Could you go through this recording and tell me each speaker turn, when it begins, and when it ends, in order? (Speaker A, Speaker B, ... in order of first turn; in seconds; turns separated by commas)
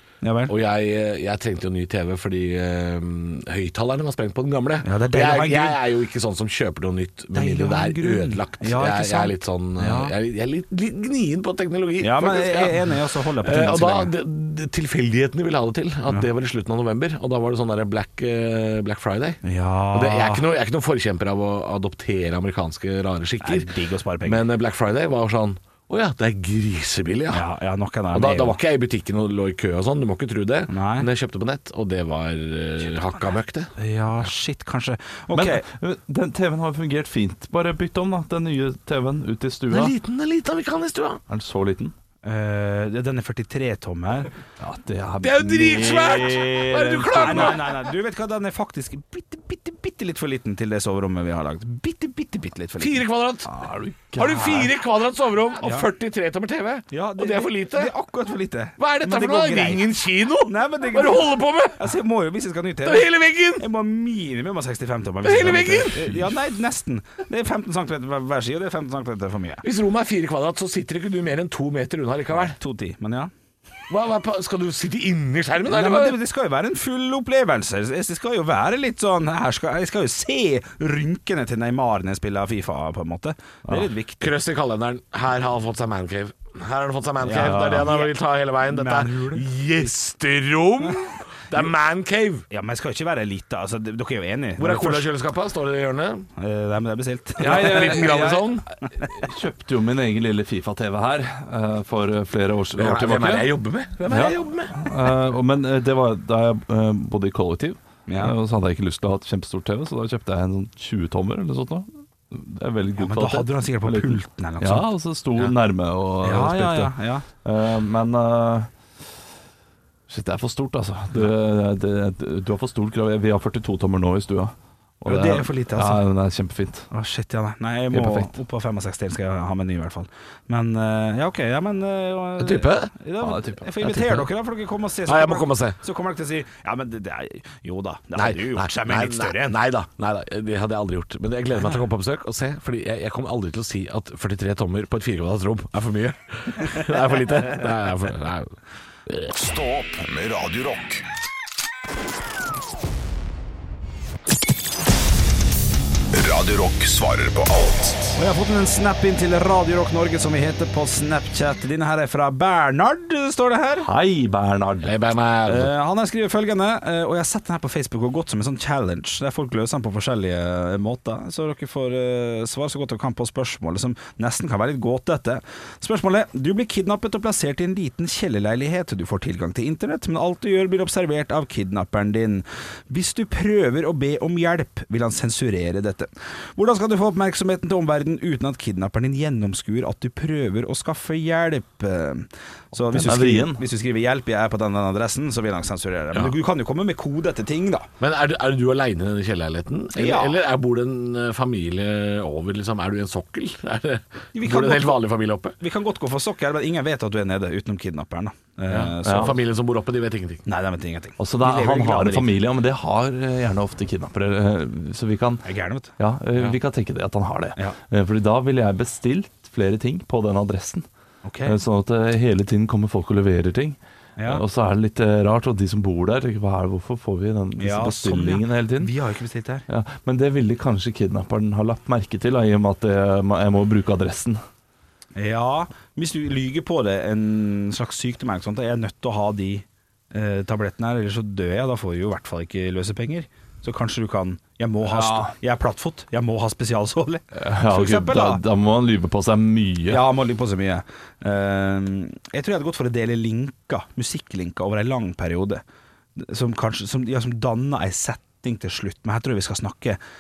Speaker A: 0.2-0.5, Speaker B: 0.5-19.4, Speaker A: 4.8-5.8, Speaker A: 7.3-10.1, Speaker A: 12.0-14.1, Speaker A: 19.4-20.5, Speaker B: 19.9-23.7, Speaker A: 23.4-24.4, Speaker B: 24.2-27.4, Speaker A: 27.3-28.6, Speaker B: 28.1-33.7, Speaker A: 30.7-31.1, Speaker A: 33.8-35.6, Speaker C: 35.4-39.9, Speaker B: 39.7-41.2, Speaker C: 41.3-41.9, Speaker A: 42.2-44.3, Speaker C: 44.6-47.6, Speaker B: 45.2-47.7, Speaker A: 47.2-53.0, Speaker B: 52.8-53.5, Speaker C: 53.5-54.7, Speaker B: 54.2-57.9, Speaker A: 55.6-55.9, Speaker A: 56.9-59.8, Speaker B: 58.8-61.9, Speaker A: 60.5-69.6, Speaker B: 62.8-63.6, Speaker B: 65.2-66.1, Speaker C: 65.5-66.2, Speaker B: 69.6-72.6, Speaker A: 72.3-73.3, Speaker B: 73.9-76.2, Speaker A: 75.7-84.3, Speaker B: 84.2-92.5, Speaker A: 87.2-89.5, Speaker C: 87.4-87.8, Speaker A: 92.5-95.1, Speaker B: 94.6-96.3, Speaker A: 96.4-98.1, Speaker B: 97.4-98.7, Speaker C: 97.4-103.5, Speaker B: 102.8-104.9, Speaker C: 104.1-118.7, Speaker A: 108.1-108.3, Speaker A: 113.0-115.5, Speaker A: 116.2-117.2, Speaker C: 120.1-126.9, Speaker A: 125.0-126.0, Speaker A: 126.9-139.6, Speaker C: 127.9-128.3, Speaker B: 132.4-132.9, Speaker C: 133.2-133.7, Speaker B: 133.8-134.3, Speaker B: 135.1-135.8, Speaker B: 138.2-148.6, Speaker D: 149.2-151.1, Speaker D: 156.1-158.2, Speaker A: 158.2-163.9, Speaker C: 163.8-165.0, Speaker B: 164.8-165.7, Speaker A: 165.5-197.9, Speaker C: 192.9-193.6, Speaker B: 198.0-205.6, Speaker A: 199.9-200.4, Speaker A: 204.3-209.4, Speaker B: 208.7-210.4, Speaker C: 209.0-209.3, Speaker A: 210.5-212.3, Speaker C: 211.2-215.5, Speaker A: 215.4-215.9, Speaker C: 216.0-220.8, Speaker A: 221.2-221.6, Speaker C: 221.4-228.9, Speaker A: 224.2-224.4, Speaker A: 227.6-229.7, Speaker C: 229.7-234.4, Speaker A: 235.2-248.4, Speaker C: 244.9-245.3, Speaker C: 247.4-250.1, Speaker A: 249.9-255.6, Speaker A: 256.2-260.0